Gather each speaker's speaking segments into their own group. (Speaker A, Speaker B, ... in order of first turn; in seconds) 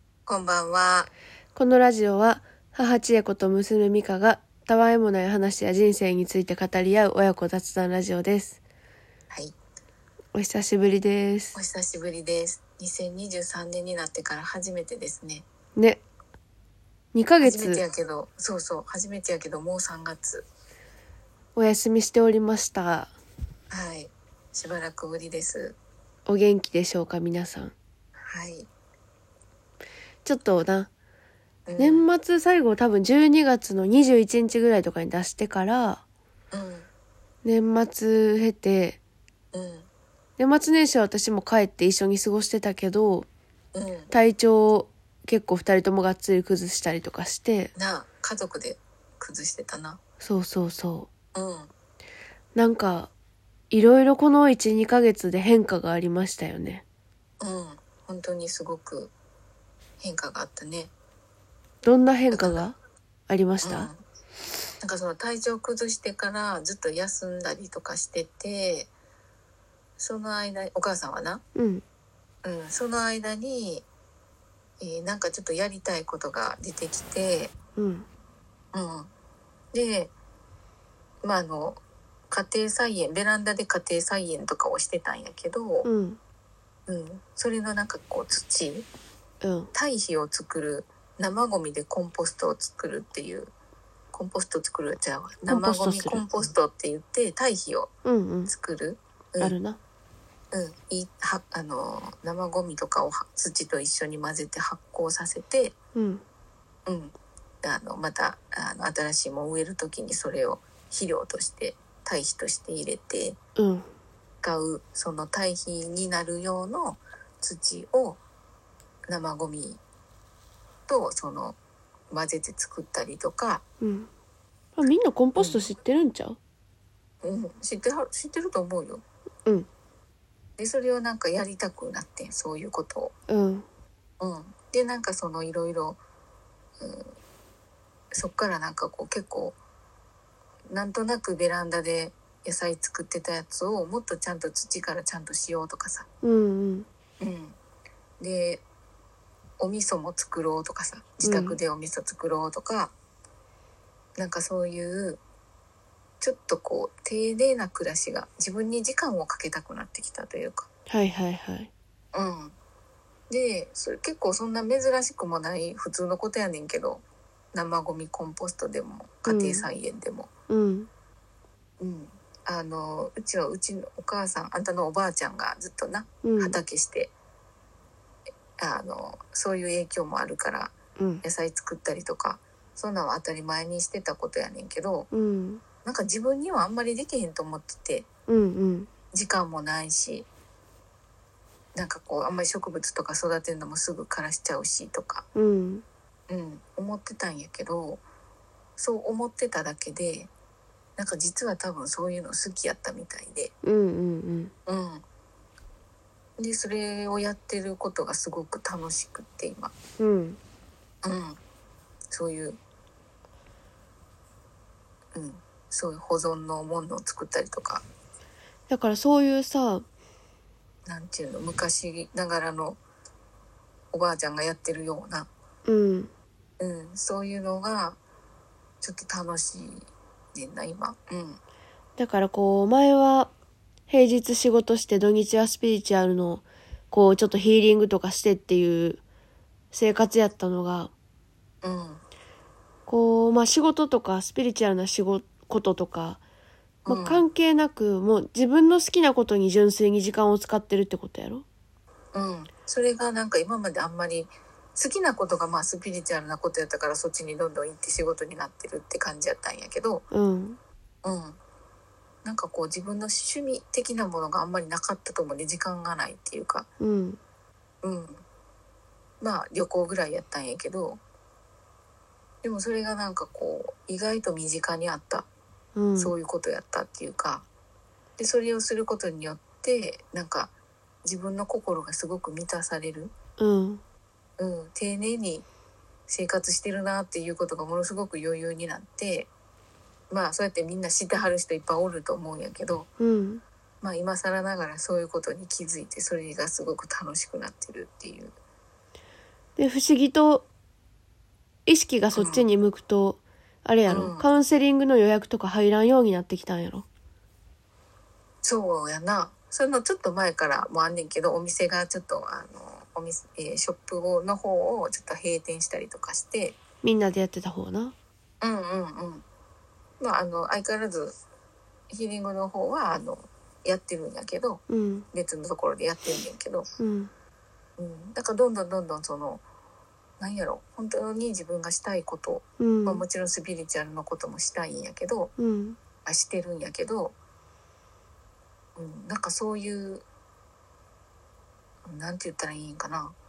Speaker A: 0.3-1.1, 9.3-9.6, 11.6-15.5, 17.4-20.4, 23.7-25.8, 28.2-28.7, 31.7-32.1, 36.5-36.9, 39.5-39.9, 43.7-44.1, 47.8-50.0, 51.3-51.7, 57.4-59.1, 60.0-60.9, 62.3-62.6, 63.6-64.0, 64.8-68.9, 70.0-71.4, 72.4-73.9, 74.8-77.5, 78.7-79.1, 79.7-80.1, 81.2-85.9, 86.9-88.9, 89.7-93.5, 94.1-97.9, 98.5-99.5, 100.5-105.7, 106.9-113.4, 114.4-118.2, 119.1-119.8, 120.9-121.6, 122.1-123.6, 125.4-125.6, 127.2-129.0, 130.6-133.1, 134.2-136.0, 136.8-137.1, 138.1-139.6, 140.7-146.1, 147.2-147.6, 148.2-148.6, 149.6-152.9, 154.2-155.2, 156.2-160.7, 162.1-162.6, 163.3-170.3, 171.8-177.1, 178.6-185.1, 185.8-188.1, 189.1-190.3, 191.8-195.3, 196.3-198.0, 198.8-200.3, 201.0-203.5, 204.7-205.0, 206.4-209.7, 211.0-211.4, 212.1-212.6, 215.1-217.8, 220.9-222.8, 223.9-225.3, 226.6-228.0, 228.8-231.4, 241.6-242.0, 246.9-247.3, 252.1-260.1, 261.0-261.4, 262.2-266.7, 267.8-268.2, 269.2-271.0, 272.4-275.3, 276.0-277.4, 278.2-280.5, 281.1-283.1, 284.4-285.4, 286.1-289.3, 290.1-292.9, 293.8-298.4, 302.1-302.5, 303.9-304.3, 308.4-316.6, 318.4-319.2, 320.0-321.1, 321.9-326.7, 327.8-329.4, 330.2-335.3, 336.1-337.2, 338.8-340.1, 341.9-343.1
Speaker B: 1.6-8.6, 10.3-11.6, 15.8-16.0, 17.1-17.8, 21.6-23.1, 26.3-27.7, 30.2-30.9, 31.8-36.0, 37.5-39.0, 40.4-43.3, 44.1-47.7, 50.2-51.1, 52.6-53.1, 53.7-56.8, 61.8-62.8, 63.3-63.9, 71.5-71.8, 77.8-78.1, 85.8-86.2, 89.4-89.7, 95.5-96.5, 98.0-98.5, 99.4-99.8, 106.0-106.2, 113.6-113.9, 123.8-124.1, 124.8-126.4, 133.3-133.7, 146.2-146.9, 151.2-151.6, 160.9-161.7, 169.3-169.7, 170.5-170.9, 176.2-176.6, 181.0-181.2, 185.1-185.6, 188.3-188.9, 195.3-195.8, 203.6-204.5, 210.0-210.4, 218.7-219.9, 225.7-226.1, 232.0-233.3, 233.9-239.0, 239.7-240.9, 242.9-246.2, 246.9-251.4, 260.1-260.6, 266.8-267.2, 275.8-276.1, 283.4-283.8, 293.0-293.4, 299.6-300.5, 301.7-306.9, 316.8-317.9, 324.7-325.1, 326.8-327.1, 332.6-333.0, 335.4-335.8